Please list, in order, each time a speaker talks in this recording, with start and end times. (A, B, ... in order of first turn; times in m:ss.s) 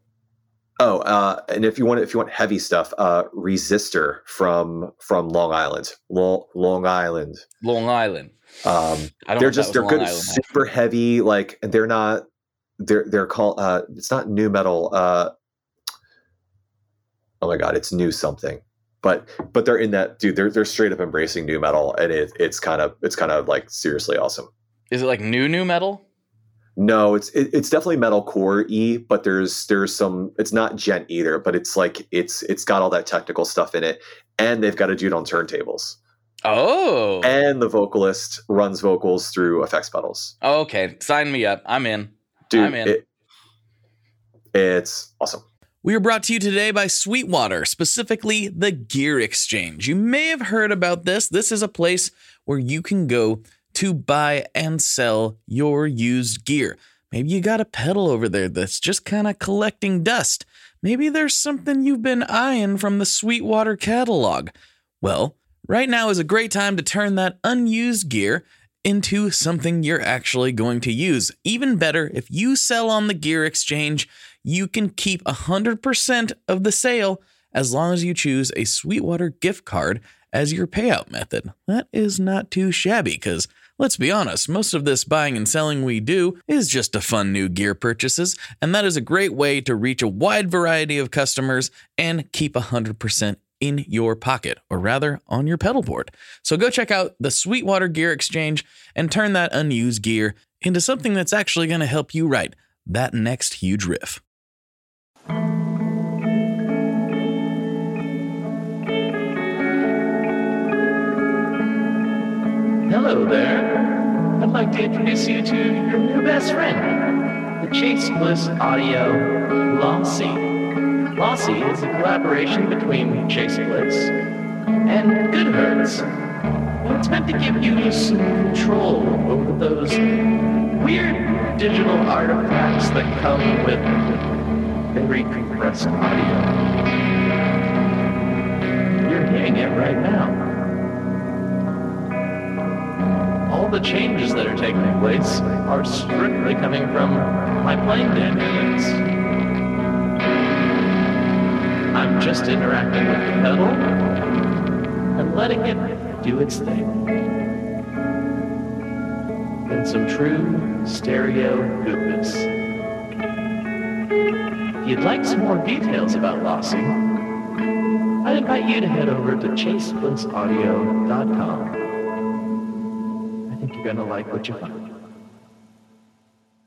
0:00.8-0:07.4 A
0:07.6-0:08.4 B
0:08.6-0:12.2 A
0:09.2-0:10.6 B
0:12.8-0:15.3 A
0:17.4-0:24.5 A
0:24.9-0:26.0 B
0:26.8-0:36.0 A
0:36.4-0:37.3 B
0:37.2-0:40.3 A
0:40.4-0:43.0 B
0:42.5-0:43.0 A
0:44.5-0:45.4 A
0:45.8-1:44.2 B
1:52.9-2:00.5 C
2:01.1-2:04.1 C
2:04.8-2:06.0 C
2:06.8-2:10.2 C
2:10.7-2:14.3 C
2:14.9-2:16.7 C
2:19.0-2:20.5 C
2:23.5-2:29.0 C
2:31.9-2:33.9 C
2:35.1-2:37.1 C
2:39.6-2:42.5 C
2:44.8-2:47.0 C
2:48.2-2:51.8 C
2:53.5-2:54.9 C